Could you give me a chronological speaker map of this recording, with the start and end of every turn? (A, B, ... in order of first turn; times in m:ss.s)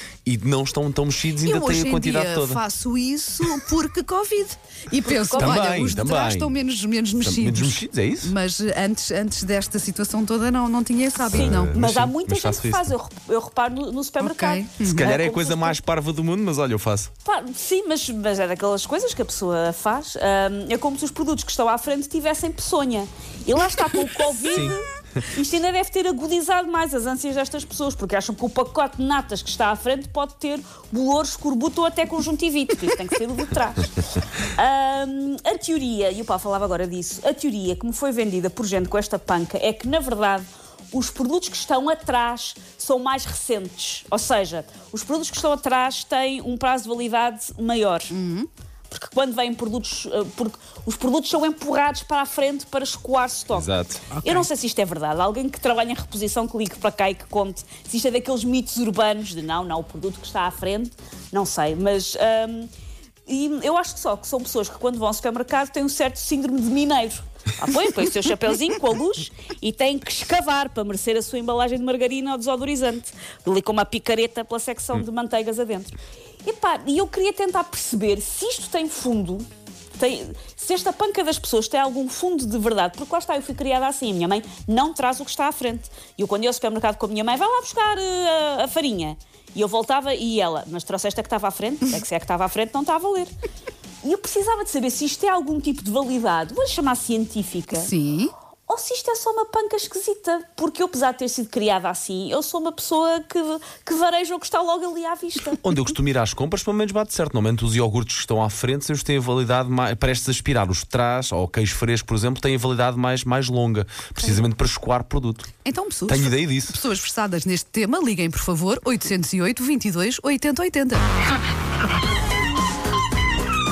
0:00.2-0:02.6 A
0:01.4-0:11.8 B
0:05.1-0:05.6 C
0:05.4-0:06.6 A
0:07.2-0:08.4 A
0:11.2-0:15.8 C
0:11.3-0:12.9 A
0:14.2-0:15.1 B
0:14.8-0:17.1 A
0:17.2-0:48.2 C
0:24.5-0:24.8 A
0:48.1-0:48.5 B
0:48.9-1:02.7 C
0:53.5-0:54.0 A
0:54.1-0:54.5 B
1:03.3-1:19.5 C
1:20.0-1:33.3 C
1:34.0-1:37.9 C
1:37.7-1:38.3 B
1:38.7-1:45.6 C
1:45.6-1:55.5 A
1:55.6-2:01.1 B
1:56.1-1:56.8 A